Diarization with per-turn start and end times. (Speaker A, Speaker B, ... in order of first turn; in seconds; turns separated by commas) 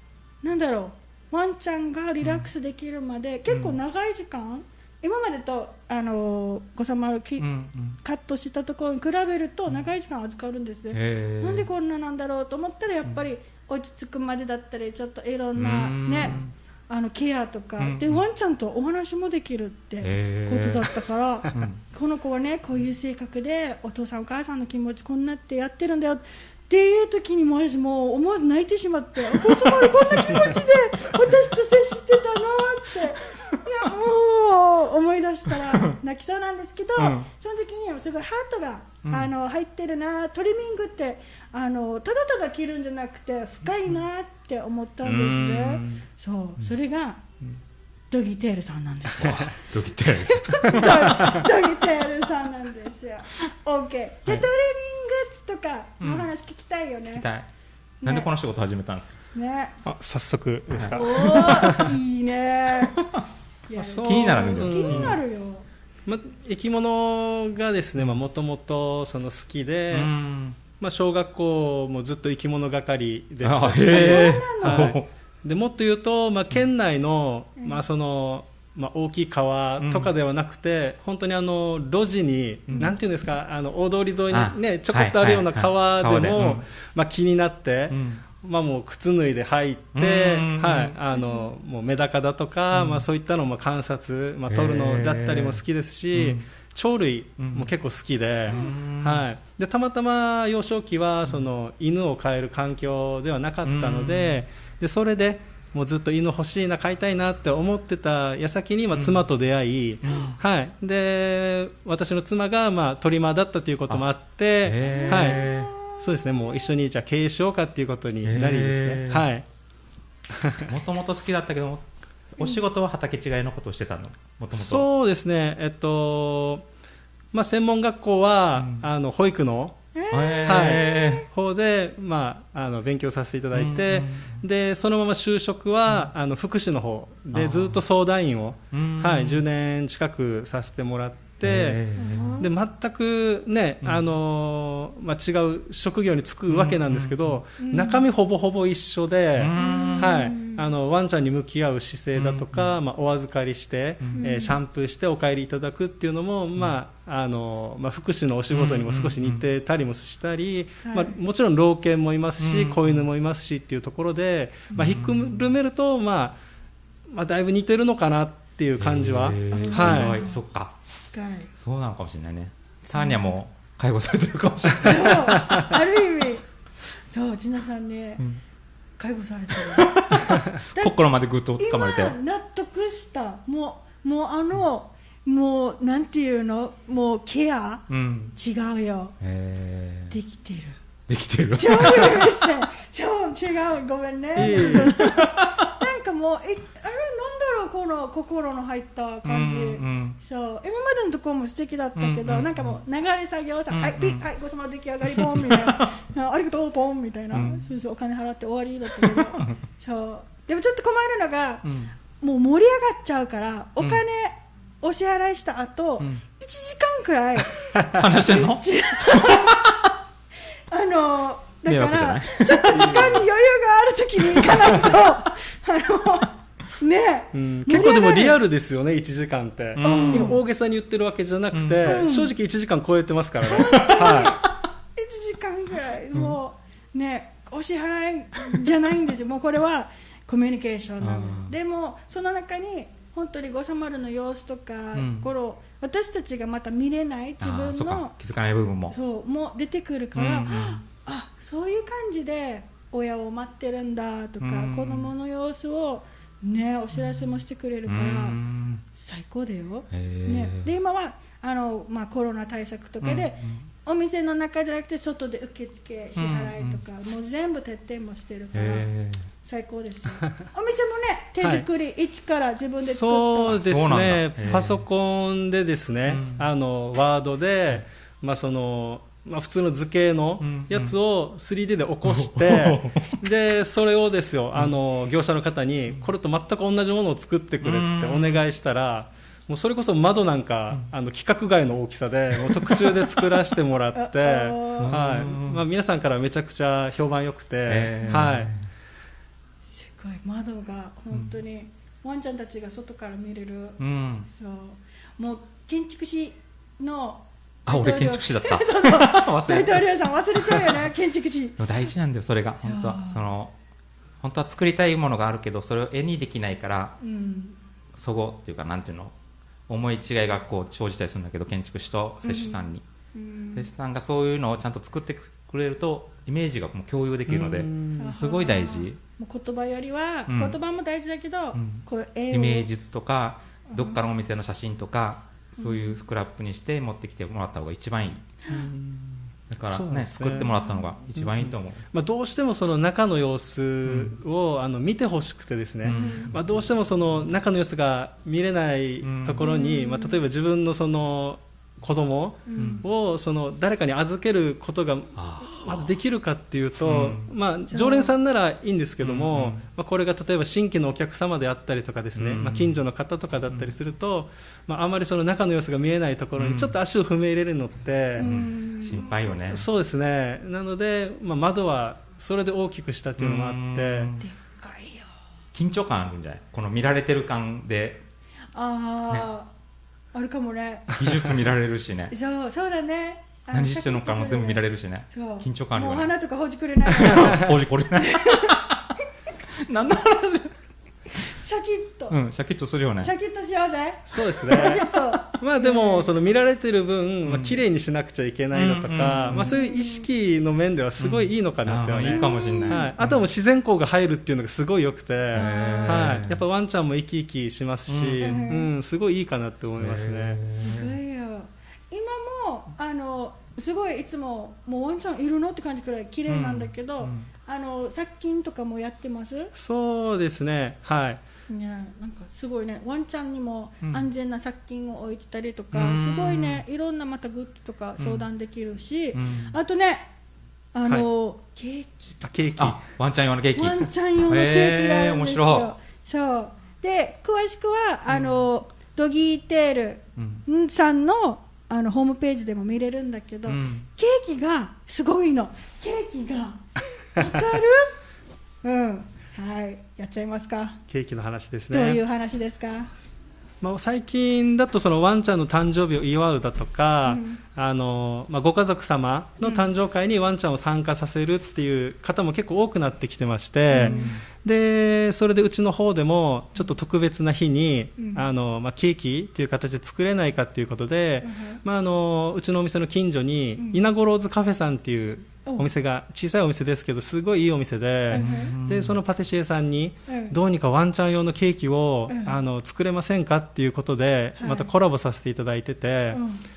Speaker A: 0.4-7.5, Speaker B: 2.2-2.5, Speaker B: 3.5-3.8, Speaker B: 7.4-8.0, Speaker A: 8.0-47.2, Speaker B: 10.9-11.7, Speaker B: 15.6-16.5, Speaker B: 17.8-18.2, Speaker B: 20.0-20.9, Speaker B: 21.5-21.8, Speaker B: 29.4-30.4, Speaker B: 37.0-37.3, Speaker B: 39.0-39.3, Speaker B: 45.0-46.1, Speaker A: 48.1-49.5, Speaker B: 49.2-51.4, Speaker A: 50.2-57.3, Speaker B: 56.0-56.3, Speaker B: 57.1-57.5, Speaker A: 58.0-58.3, Speaker B: 58.0-59.1, Speaker A: 59.3-59.8, Speaker C: 59.9-62.0, Speaker B: 60.7-61.8, Speaker A: 60.9-63.0, Speaker B: 62.8-63.2, Speaker A: 63.7-65.6, Speaker C: 63.8-65.2, Speaker B: 64.0-65.2, Speaker C: 66.1-70.1, Speaker B: 69.9-70.6, Speaker C: 70.8-119.5, Speaker B: 73.4-75.1, Speaker A: 73.9-75.0, Speaker B: 79.8-80.1, Speaker B: 82.7-82.9, Speaker B: 84.3-86.6, Speaker B: 87.9-88.2, Speaker B: 90.0-91.0, Speaker A: 91.1-91.5, Speaker B: 92.7-93.1, Speaker B: 94.5-95.6, Speaker B: 96.1-96.5, Speaker B: 97.4-97.7, Speaker B: 98.5-99.3, Speaker A: 98.5-98.8, Speaker B: 103.6-104.4, Speaker B: 108.9-109.2, Speaker B: 110.0-110.4, Speaker A: 110.1-110.3, Speaker B: 114.6-115.7, Speaker A: 114.8-116.7, Speaker B: 118.2-119.3, Speaker C: 120.3-120.7, Speaker B: 120.6-124.9, Speaker C: 124.5-126.7, Speaker C: 127.3-129.8, Speaker B: 128.6-128.9, Speaker A: 129.9-131.2, Speaker B: 130.1-131.3, Speaker C: 130.4-141.8, Speaker B: 133.5-134.4, Speaker B: 137.3-137.8, Speaker B: 138.7-139.5, Speaker B: 141.4-142.4, Speaker A: 142.0-142.5, Speaker C: 142.4-166.4, Speaker B: 143.8-144.1, Speaker B: 146.5-147.4, Speaker A: 147.6-148.1, Speaker B: 149.4-150.2, Speaker A: 149.6-150.7, Speaker B: 152.2-152.8, Speaker A: 154.2-154.6, Speaker B: 158.5-159.4, Speaker A: 160.8-161.2, Speaker B: 162.4-163.1, Speaker B: 164.7-165.6, Speaker C: 167.1-170.2, Speaker B: 168.8-170.8, Speaker A: 169.5-170.4, Speaker A: 171.1-171.5, Speaker B: 171.6-175.6, Speaker A: 174.8-176.5, Speaker A: 177.0-178.2, Speaker A: 179.0-180.9, Speaker B: 179.6-182.2, Speaker A: 181.6-189.2, Speaker B: 187.9-188.3, Speaker B: 189.2-190.2, Speaker A: 190.1-190.8, Speaker B: 191.1-192.6, Speaker A: 191.6-219.7, Speaker C: 194.4-195.1, Speaker B: 194.4-195.8, Speaker B: 199.2-200.2, Speaker B: 202.0-202.8, Speaker B: 203.7-204.2, Speaker B: 205.2-205.9, Speaker B: 207.3-207.7, Speaker B: 211.6-211.9, Speaker B: 217.9-219.8, Speaker A: 220.7-228.4, Speaker B: 221.7-223.1, Speaker C: 222.7-223.2, Speaker B: 224.3-225.0, Speaker C: 227.3-234.4, Speaker B: 229.8-230.4, Speaker A: 229.8-230.4, Speaker B: 231.5-232.1, Speaker A: 231.8-232.3, Speaker A: 233.4-248.1, Speaker B: 233.5-234.3, Speaker B: 241.0-241.6, Speaker B: 244.9-245.3, Speaker B: 247.4-249.0, Speaker A: 248.9-258.4, Speaker B: 250.2-250.8, Speaker B: 254.4-255.1, Speaker B: 256.9-258.8, Speaker A: 258.9-268.9, Speaker B: 259.9-260.7, Speaker B: 263.0-263.7, Speaker B: 266.2-266.8, Speaker B: 268.5-269.3, Speaker A: 269.4-273.6, Speaker C: 272.8-298.5, Speaker B: 273.5-274.8, Speaker B: 276.1-276.5, Speaker B: 280.4-280.9, Speaker B: 282.1-283.2, Speaker B: 287.6-288.4, Speaker B: 292.5-293.0, Speaker A: 294.0-295.3, Speaker B: 294.8-295.6, Speaker B: 297.7-298.6, Speaker A: 299.7-303.8, Speaker B: 303.8-304.3, Speaker A: 304.3-311.6, Speaker B: 307.7-310.9, Speaker B: 311.6-313.6, Speaker A: 312.6-313.3, Speaker B: 314.2-317.0, Speaker A: 317.0-317.6, Speaker B: 317.9-319.1, Speaker B: 319.7-322.8, Speaker A: 322.2-322.6, Speaker A: 323.1-323.7, Speaker B: 323.6-329.0, Speaker C: 327.3-328.2, Speaker A: 328.0-332.7, Speaker B: 330.3-330.6, Speaker B: 331.5-338.7, Speaker A: 333.7-334.0, Speaker A: 335.6-336.0, Speaker A: 338.4-338.7, Speaker C: 338.5-339.2, Speaker B: 339.5-341.8, Speaker C: 339.7-340.5, Speaker C: 341.1-368.3, Speaker B: 343.9-344.2, Speaker B: 345.8-346.5, Speaker A: 345.9-346.3, Speaker B: 349.0-349.5, Speaker A: 349.4-350.2, Speaker A: 352.5-352.9, Speaker B: 352.6-352.9, Speaker B: 355.2-355.9, Speaker B: 356.8-357.3, Speaker A: 357.7-358.1, Speaker B: 359.0-359.6, Speaker B: 362.1-362.8, Speaker B: 366.4-366.8, Speaker A: 368.2-369.1, Speaker B: 368.2-369.7, Speaker C: 369.5-374.1, Speaker B: 373.2-374.2, Speaker A: 374.2-375.1, Speaker B: 375.5-378.0, Speaker A: 378.6-379.5, Speaker A: 380.1-381.0, Speaker B: 380.9-382.1, Speaker A: 382.1-388.7, Speaker B: 383.5-386.1, Speaker B: 386.9-388.9, Speaker B: 389.5-390.5, Speaker A: 391.2-392.2, Speaker B: 392.1-393.1, Speaker A: 393.0-396.1, Speaker C: 394.1-410.4, Speaker B: 397.2-397.6, Speaker B: 398.5-399.6, Speaker A: 399.3-400.1, Speaker B: 401.0-403.2, Speaker A: 402.0-402.9, Speaker A: 405.3-406.2, Speaker B: 405.3-406.4, Speaker B: 407.9-408.4, Speaker A: 408.2-408.7, Speaker B: 409.8-411.0, Speaker A: 410.5-419.5, Speaker B: 416.3-417.3, Speaker C: 419.6-421.2, Speaker A: 421.5-430.1, Speaker B: 423.8-424.1, Speaker B: 425.7-426.6, Speaker B: 428.0-428.3, Speaker B: 429.1-429.6, Speaker A: 430.7-432.2, Speaker C: 432.2-432.8, Speaker B: 432.6-435.7, Speaker A: 433.5-447.9, Speaker B: 438.1-438.4, Speaker B: 440.2-440.5, Speaker B: 443.5-443.9, Speaker A: 448.6-450.8, Speaker C: 450.9-452.0, Speaker A: 451.7-452.9, Speaker C: 453.6-486.2, Speaker A: 457.1-457.4, Speaker A: 459.4-459.7, Speaker A: 463.7-464.1, Speaker B: 463.8-464.2, Speaker A: 468.0-468.2, Speaker A: 471.2-471.6, Speaker A: 478.1-478.6, Speaker B: 478.1-479.0, Speaker A: 480.1-480.4, Speaker A: 482.1-482.4, Speaker A: 484.4-484.7, Speaker A: 486.1-486.4